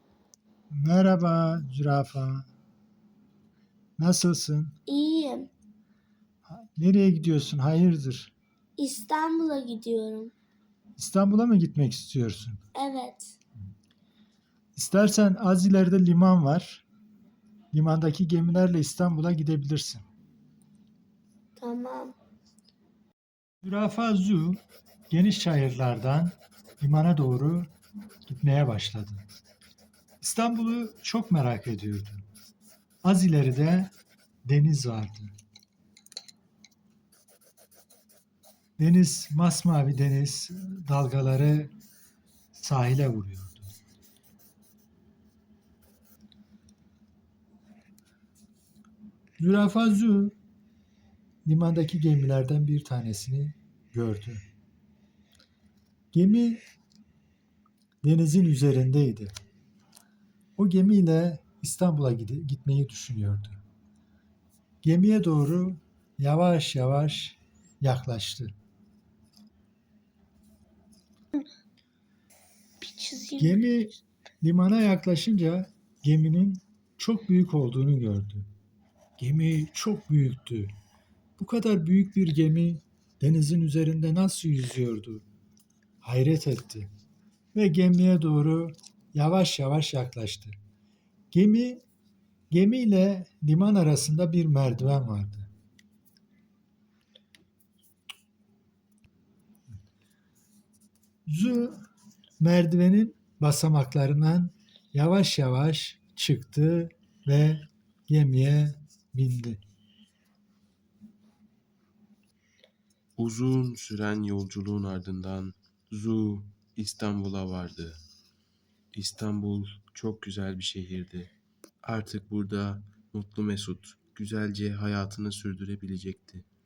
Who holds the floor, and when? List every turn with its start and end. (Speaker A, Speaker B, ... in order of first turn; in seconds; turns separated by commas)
Speaker A: 0.7-2.5, Speaker A: 4.0-4.8, Speaker B: 4.9-5.5, Speaker A: 6.5-8.3, Speaker B: 8.8-10.3, Speaker A: 10.9-12.6, Speaker B: 12.7-13.4, Speaker A: 14.8-16.8, Speaker A: 17.7-20.0, Speaker B: 21.6-22.1, Speaker A: 23.6-27.7, Speaker A: 28.2-29.3, Speaker A: 30.2-32.2, Speaker A: 33.0-33.9, Speaker A: 34.4-35.3, Speaker A: 38.8-41.7, Speaker A: 42.5-43.7, Speaker A: 49.4-50.4, Speaker A: 51.4-54.4, Speaker A: 56.1-56.6, Speaker A: 58.0-59.3, Speaker A: 60.6-63.6, Speaker A: 64.8-68.5, Speaker B: 72.8-73.6, Speaker A: 73.4-78.5, Speaker A: 79.2-80.7, Speaker A: 81.4-85.2, Speaker A: 86.0-86.9, Speaker A: 87.5-90.6, Speaker A: 91.3-91.8, Speaker A: 92.5-95.5, Speaker A: 101.2-101.8, Speaker A: 102.4-109.6, Speaker C: 113.2-118.0, Speaker C: 118.9-121.3, Speaker C: 121.8-126.5